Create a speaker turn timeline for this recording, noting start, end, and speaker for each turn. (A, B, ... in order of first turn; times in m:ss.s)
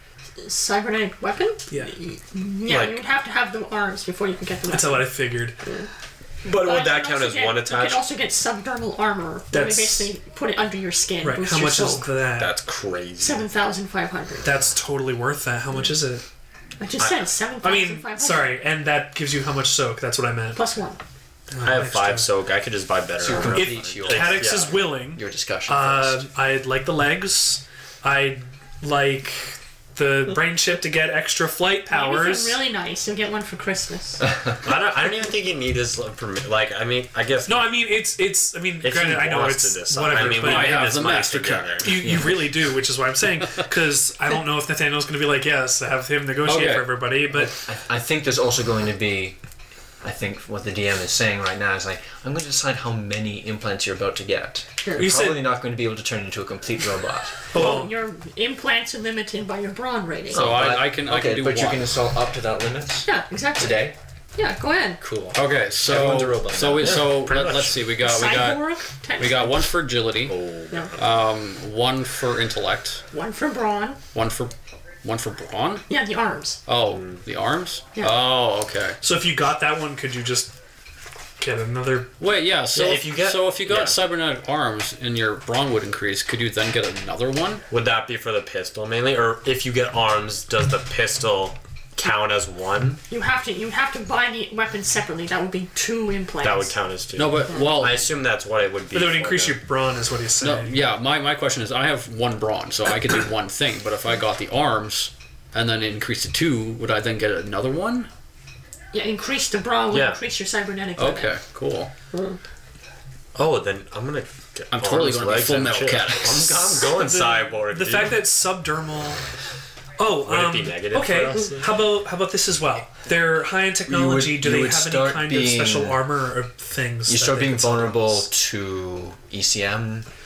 0:00.4-0:05.9 A
0:02.6-0:03.0 B
0:04.7-0:05.6 C
0:06.4-0:08.0 B
0:06.4-0:12.1 A
0:09.5-0:10.1 C
0:11.2-0:12.6 C
0:12.4-0:13.5 B
0:13.2-0:14.6 A
0:14.4-0:16.2 C
0:16.8-0:18.6 A
0:17.6-0:20.6 C
0:20.5-0:21.0 A
0:21.5-0:22.3 C
0:21.6-0:24.9 B
0:23.2-0:26.2 D
0:23.3-0:32.6 C
0:31.9-0:34.3 A
0:34.6-0:37.8 B
0:37.4-0:40.9 C
0:38.8-0:42.6 B
0:40.2-0:42.2 E
0:41.8-0:47.5 C
0:46.4-0:47.1 E
0:47.3-0:49.4 D
0:50.0-0:57.5 D
0:55.0-0:55.5 C
0:57.5-0:57.9 C
0:57.5-1:00.5 A
1:00.3-1:04.0 D
1:00.3-1:02.0 E
1:03.0-1:05.0 A
1:05.0-1:07.0 D
1:05.3-1:10.3 E
1:06.8-1:07.8 B
1:08.0-1:09.5 A
1:10.3-1:11.0 B
1:11.0-1:13.0 E
1:13.1-1:14.0 A
1:14.1-1:14.5 E
1:15.0-1:15.9 E
1:15.9-1:16.6 A
1:16.6-1:19.0 E
1:16.9-1:17.2 B
1:19.0-1:20.5 C
1:21.4-1:22.1 C
1:22.2-1:27.6 E
1:22.7-1:24.0 B
1:27.7-1:33.0 B
1:33.1-1:36.7 A
1:36.4-1:39.6 B
1:37.2-1:38.1 E
1:38.9-1:40.7 C
1:40.4-1:48.1 E
1:48.9-1:51.4 A
1:49.9-1:50.2 B
1:51.0-1:51.9 E
1:53.3-1:58.3 B
1:54.7-1:56.8 E
1:56.9-1:59.2 C
2:00.0-2:08.2 C
2:00.2-2:01.8 B
2:03.9-2:06.1 D
2:07.0-2:10.0 D